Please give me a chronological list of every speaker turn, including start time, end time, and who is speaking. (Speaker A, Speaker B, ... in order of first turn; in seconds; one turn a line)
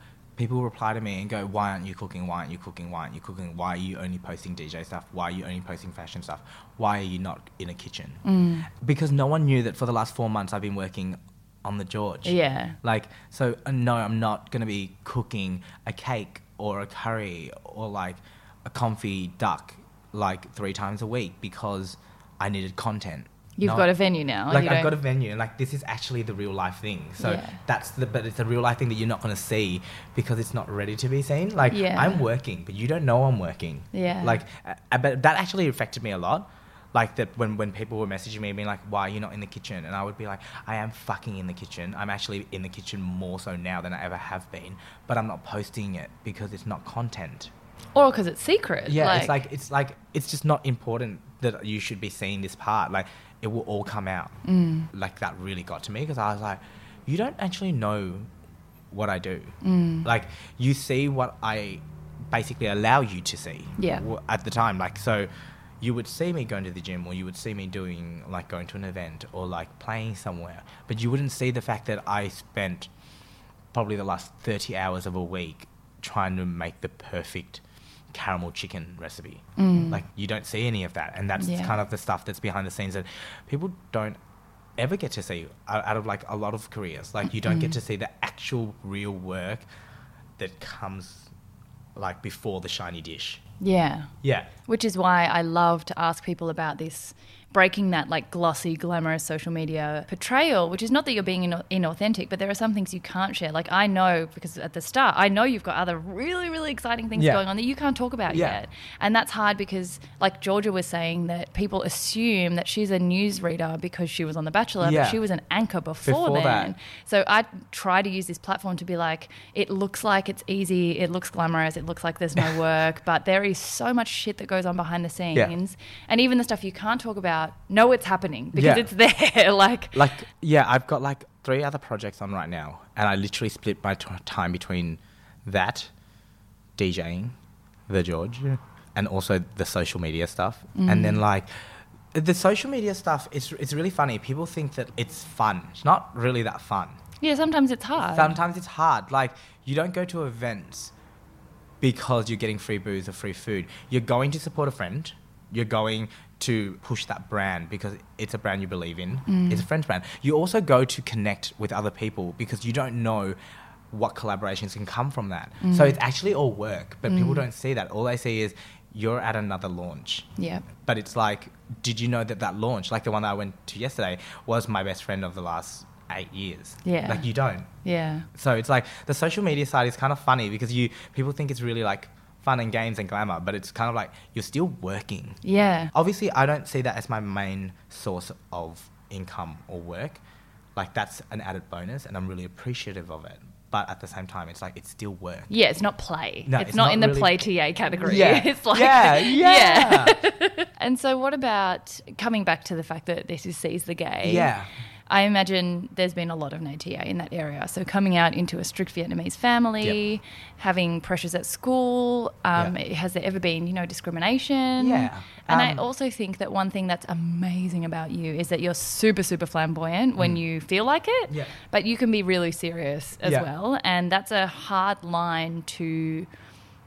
Speaker A: 0.4-23.9
Speaker B: 8.2-8.7
Speaker B: 12.2-12.8
Speaker B: 23.6-24.9
Speaker A: 24.5-47.5
Speaker B: 27.2-27.6
Speaker B: 31.7-32.2
Speaker B: 33.9-34.4
Speaker B: 47.9-49.4
Speaker A: 48.9-54.4
Speaker B: 54.4-54.9
Speaker A: 54.9-58.3
Speaker A: 58.9-65.3
Speaker B: 59.6-60.1
Speaker B: 63.8-64.0
Speaker A: 65.8-72.9
Speaker A: 73.7-84.2
Speaker B: 79.6-80.0
Speaker B: 81.4-81.8
Speaker A: 84.8-89.6
Speaker B: 87.4-87.8
Speaker A: 90.4-91.3
Speaker A: 92.0-93.4
Speaker B: 93.6-94.1
Speaker A: 94.2-94.5
Speaker B: 94.7-130.1
Speaker A: 107.2-107.4
Speaker A: 108.3-108.6
Speaker A: 114.8-115.2
Speaker A: 116.0-116.7
Speaker A: 128.5-128.9
Speaker A: 129.9-135.9
Speaker A: 136.8-137.3
Speaker A: 137.9-141.5
Speaker B: 140.8-141.2
Speaker A: 142.1-147.0
Speaker B: 147.2-148.4
Speaker A: 148.0-150.9
Speaker A: 151.8-163.3
Speaker B: 159.3-159.7
Speaker A: 163.9-170.3
Speaker B: 165.6-166.0
Speaker B: 167.1-167.4
Speaker B: 170.4-170.6
Speaker A: 170.8-177.7
Speaker B: 176.8-177.3
Speaker B: 177.8-178.3
Speaker A: 178.3-185.4
Speaker B: 185.4-185.9
Speaker A: 185.9-190.2
Speaker A: 190.8-195.5
Speaker B: 195.5-204.5
Speaker A: 196.4-197.5
Speaker A: 198.0-200.2
Speaker A: 204.2-204.7
Speaker B: 205.1-226.3
Speaker A: 214.8-215.8
Speaker A: 221.3-221.5
Speaker A: 223.2-223.5